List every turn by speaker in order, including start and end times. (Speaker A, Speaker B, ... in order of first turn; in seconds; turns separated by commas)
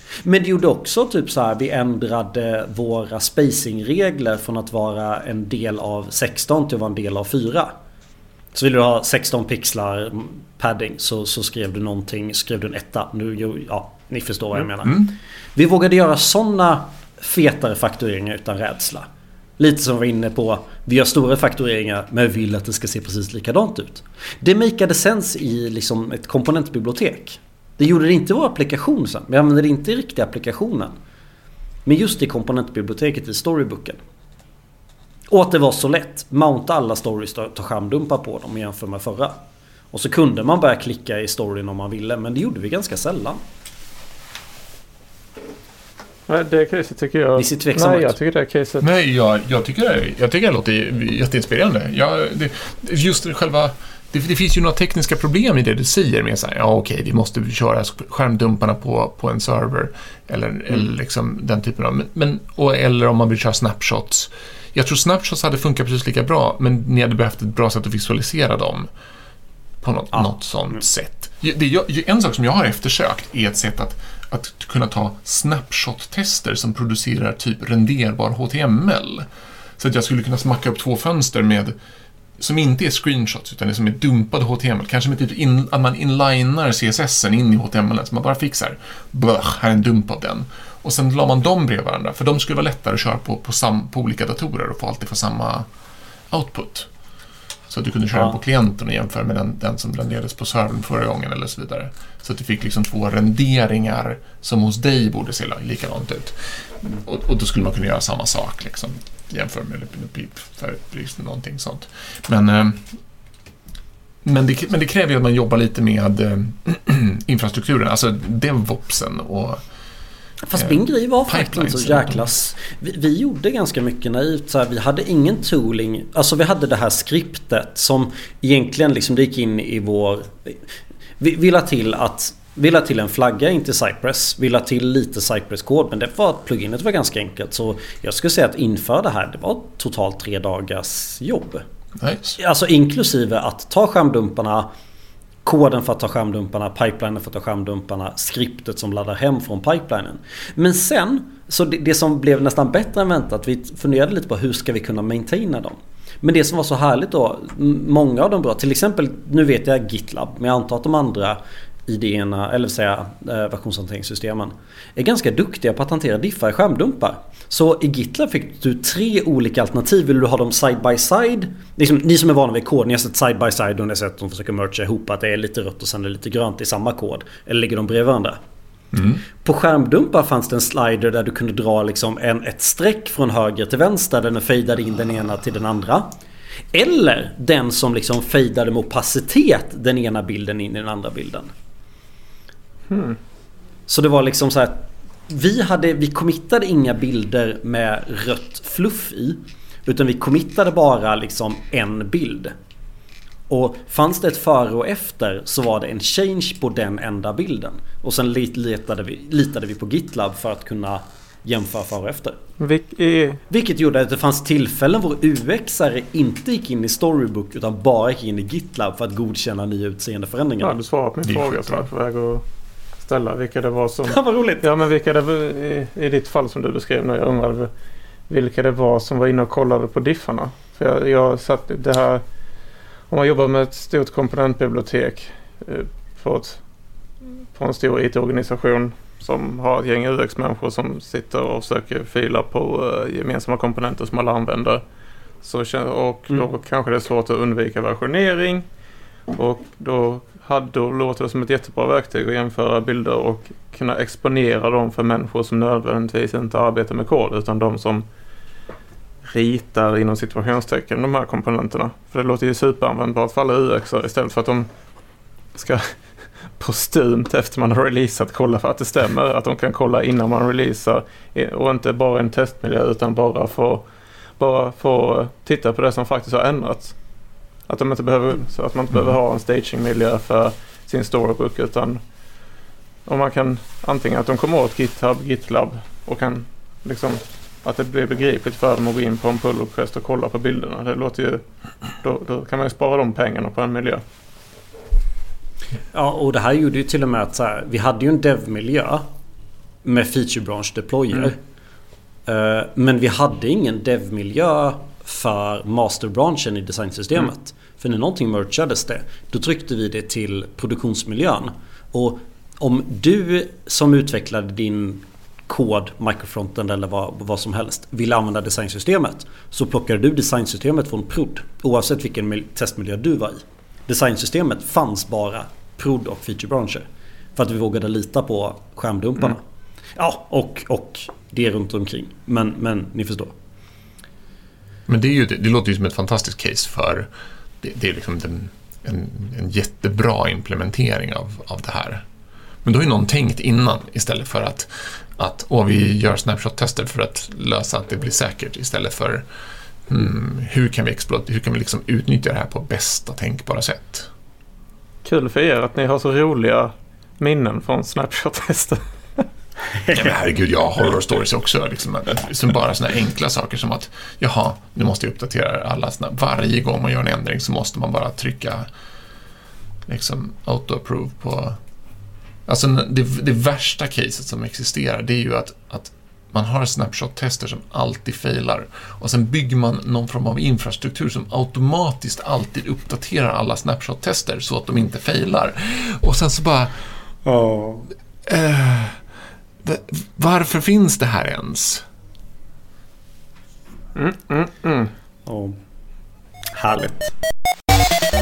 Speaker A: 0.2-7.7, Speaker A: 8.5-19.1, Speaker A: 19.6-30.9, Speaker A: 31.9-34.0, Speaker A: 35.3-39.4, Speaker A: 39.9-43.4, Speaker B: 46.3-48.9, Speaker A: 47.4-48.1, Speaker C: 48.8-68.9, Speaker C: 69.8-79.3, Speaker A: 70.1-70.8, Speaker C: 79.8-81.7, Speaker C: 82.4-95.7, Speaker C: 96.3-96.9, Speaker C: 97.7-113.0, Speaker C: 114.2-119.6, Speaker A: 120.4-130.6, Speaker C: 120.6-122.5, Speaker A: 131.2-141.6, Speaker C: 142.0-142.3, Speaker A: 142.3-144.7, Speaker A: 145.4-178.4, Speaker C: 178.9-179.2, Speaker A: 179.4-186.1, Speaker A: 186.7-191.5, Speaker B: 192.9-193.2, Speaker A: 193.9-202.5, Speaker A: 203.5-212.4, Speaker B: 212.6-213.4, Speaker A: 213.5-220.7, Speaker B: 220.6-222.4, Speaker C: 221.2-221.8, Speaker B: 223.0-227.7, Speaker A: 224.1-224.6, Speaker B: 228.3-232.2, Speaker B: 233.1-236.6, Speaker B: 237.5-244.8, Speaker B: 245.4-248.7, Speaker B: 249.3-258.0, Speaker B: 259.2-264.7, Speaker B: 265.5-273.8, Speaker B: 274.4-276.9, Speaker B: 277.7-282.0, Speaker B: 283.1-291.4, Speaker B: 292.0-294.0, Speaker A: 295.9-299.1, Speaker A: 299.8-301.4, Speaker A: 302.3-326.8, Speaker A: 327.4-329.4, Speaker A: 329.9-333.3, Speaker C: 334.9-337.1, Speaker C: 337.6-342.0, Speaker C: 342.6-349.2, Speaker C: 349.9-354.1, Speaker B: 355.0-359.2, Speaker C: 359.9-368.7, Speaker C: 369.9-371.6, Speaker C: 372.4-386.8, Speaker A: 387.2-387.9, Speaker C: 388.2-389.0, Speaker C: 389.6-391.8, Speaker B: 393.9-394.9, Speaker A: 395.2-395.6, Speaker A: 396.5-397.1